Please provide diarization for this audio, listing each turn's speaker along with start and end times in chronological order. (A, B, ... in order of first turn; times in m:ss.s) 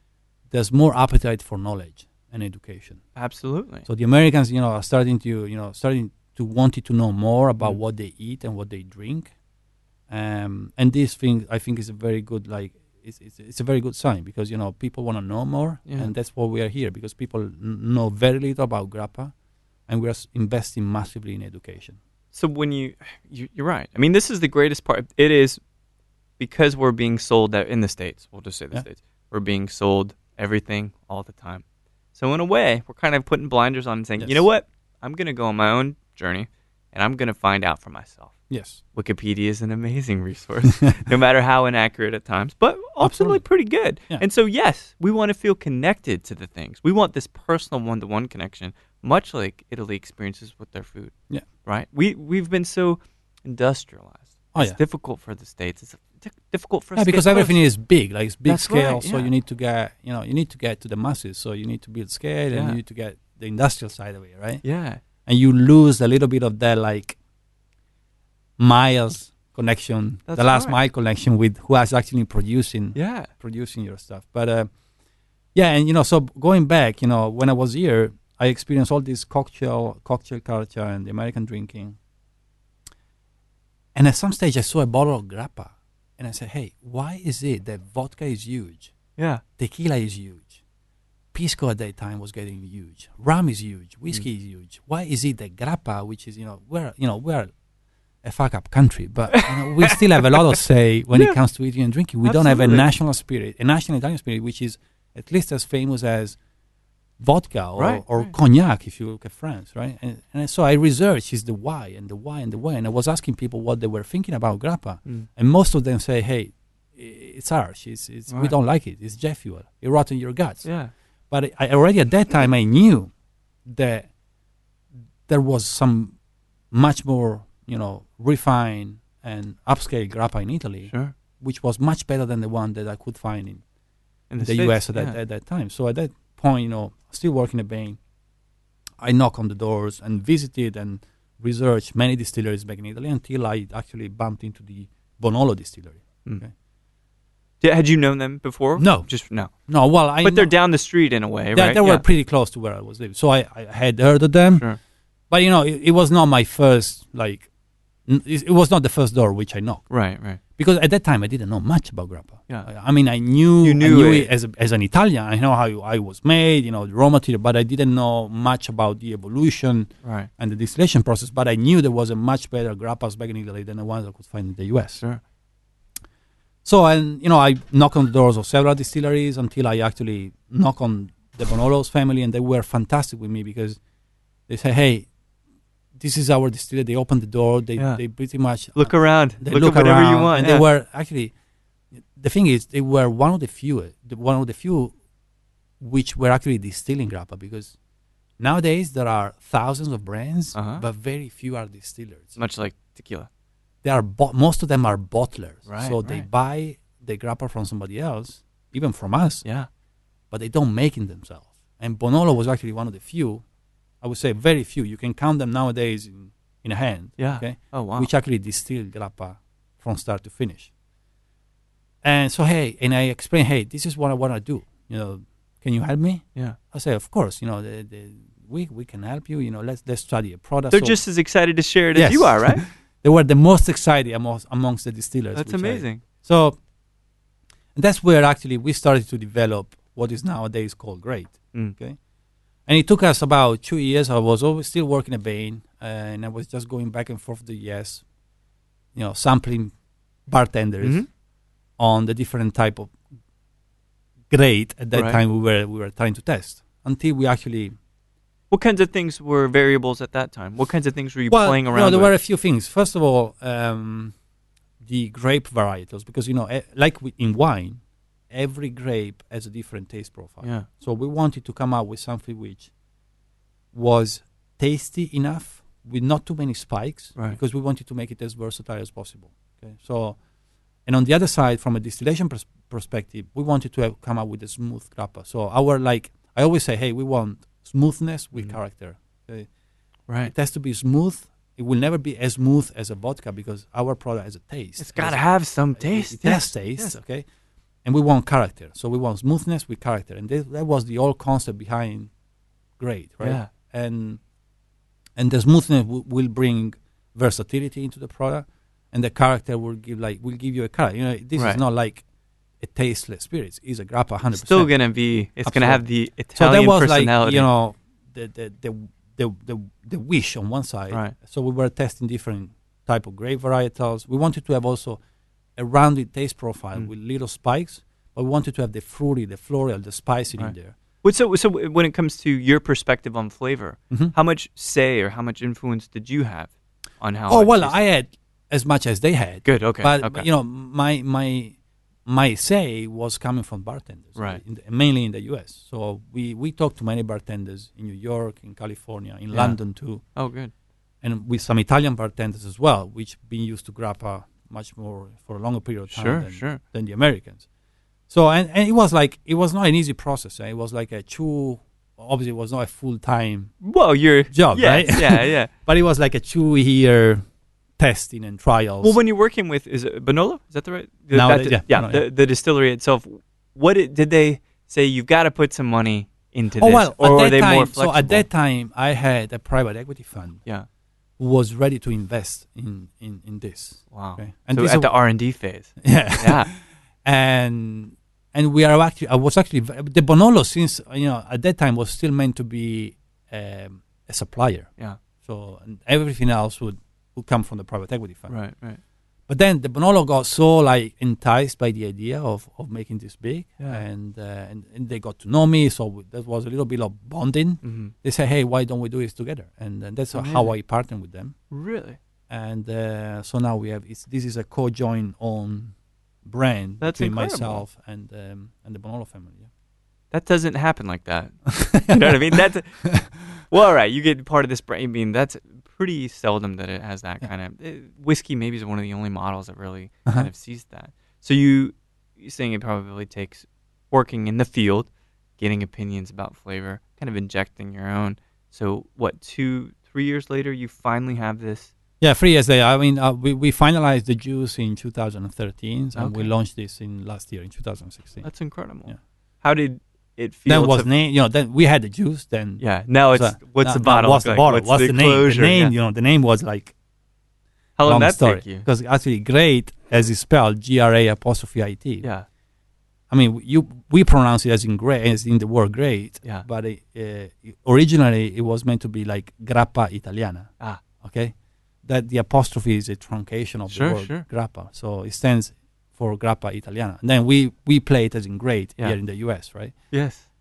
0:00.5-0:03.0 A
0:03.2-0:03.8 B
0:03.8-0:09.3 A
0:10.1-0:19.3 A
0:15.9-0:16.1 B
0:19.9-0:22.0 A
0:22.3-0:25.6 B
0:26.4-0:31.6 B
0:32.1-0:38.3 B
0:38.5-0:38.8 A
0:38.9-0:57.6 B
0:43.0-0:43.4 A
0:57.0-1:04.6 A
0:58.4-0:59.3 B
1:02.5-1:02.8 B
1:04.6-1:05.0 B
1:05.2-1:07.2 A
1:08.6-1:14.7 A
1:10.3-1:10.8 B
1:12.9-1:13.3 B
1:15.5-1:22.0 A
1:23.9-1:28.9 A
1:29.2-1:29.4 B
1:29.6-1:30.6 A
1:31.3-1:37.5 A
1:38.2-1:46.4 A
1:39.3-1:40.6 B
1:42.2-1:42.9 B
1:47.2-2:00.6 A
1:47.8-1:48.3 B
2:00.6-2:00.9 B
2:01.3-2:03.1 A
2:03.6-2:04.1 A
2:05.3-2:06.1 A
2:06.7-2:13.6 A
2:10.9-2:11.1 B
2:14.3-2:15.2 B
2:14.4-2:18.0 A
2:19.0-2:26.5 A
2:27.6-2:29.5 B
2:28.8-2:29.1 A
2:29.7-2:30.5 A
2:30.2-2:32.0 B
2:31.5-2:34.6 A
2:35.3-2:37.5 A
2:38.1-2:39.9 A
2:39.9-2:40.4 B
2:40.6-2:55.0 A
2:43.6-2:44.3 B
2:50.0-2:50.3 B
2:56.6-3:03.8 A
3:04.5-3:05.1 A
3:06.0-3:11.3 A
3:08.8-3:10.6 B
3:12.1-3:14.9 A
3:15.8-3:17.7 A
3:18.4-3:22.4 A
3:20.5-3:20.8 B
3:22.4-3:23.3 B
3:23.8-3:29.4 A
3:25.7-3:26.2 B
3:30.3-3:33.4 A
3:34.0-3:40.7 A
3:37.2-3:38.1 B
3:42.0-3:51.0 A
3:50.7-3:52.6 B
3:51.9-3:56.6 A
3:55.3-3:56.0 B
3:57.7-4:02.0 A
4:02.7-4:08.0 A
4:08.9-4:09.7 A
4:10.3-4:11.0 A
4:10.8-4:11.1 B
4:11.8-4:12.9 A
4:14.3-4:17.7 A
4:14.9-4:15.2 B
4:18.5-4:22.1 B
4:21.3-4:24.1 A
4:24.8-4:27.8 A
4:28.3-4:32.7 A
4:30.4-4:30.7 B
4:33.7-4:40.2 A
4:40.9-4:49.5 A
4:50.2-4:55.2 A
4:54.8-4:57.0 B
4:55.7-4:57.2 A
4:57.8-5:02.1 A
5:02.8-5:04.2 A
5:03.2-5:03.5 B
5:05.2-5:12.0 A
5:11.4-5:11.6 B
5:12.6-5:14.7 A
5:14.3-5:17.5 B
5:15.4-5:15.8 A
5:16.3-5:25.0 A
5:25.6-5:30.7 A
5:30.4-5:37.8 B
5:37.3-5:41.5 A
5:39.4-5:40.3 B
5:42.0-5:50.0 A
5:44.2-5:44.4 B
5:50.2-5:50.5 B
5:51.0-5:57.4 A
5:55.9-5:56.6 B
5:58.1-6:03.5 A
6:03.6-6:05.5 B
6:04.3-6:07.2 A
6:07.8-6:09.0 A
6:08.8-6:18.2 B
6:11.1-6:12.0 A
6:16.6-6:20.4 A
6:21.2-6:24.9 A
6:23.9-6:26.5 B
6:25.8-6:34.7 A
6:35.2-6:38.3 A
6:38.3-6:38.8 B
6:39.3-6:51.3 A
6:47.6-6:47.9 B
6:50.1-6:50.5 B
6:51.5-6:52.0 B
6:52.3-6:55.7 A
6:56.2-6:59.5 A
6:56.8-6:57.6 B
7:00.1-7:02.9 B
7:01.5-7:02.0 A
7:03.5-7:21.7 B
7:22.0-7:28.2 A
7:26.0-7:26.3 B
7:28.2-7:30.9 B
7:30.5-7:36.7 A
7:32.6-7:35.7 B
7:37.8-7:38.6 B
7:37.8-7:42.0 A
7:43.1-7:51.3 A
7:51.8-7:59.7 A
7:53.7-7:54.2 B
7:59.9-8:00.2 B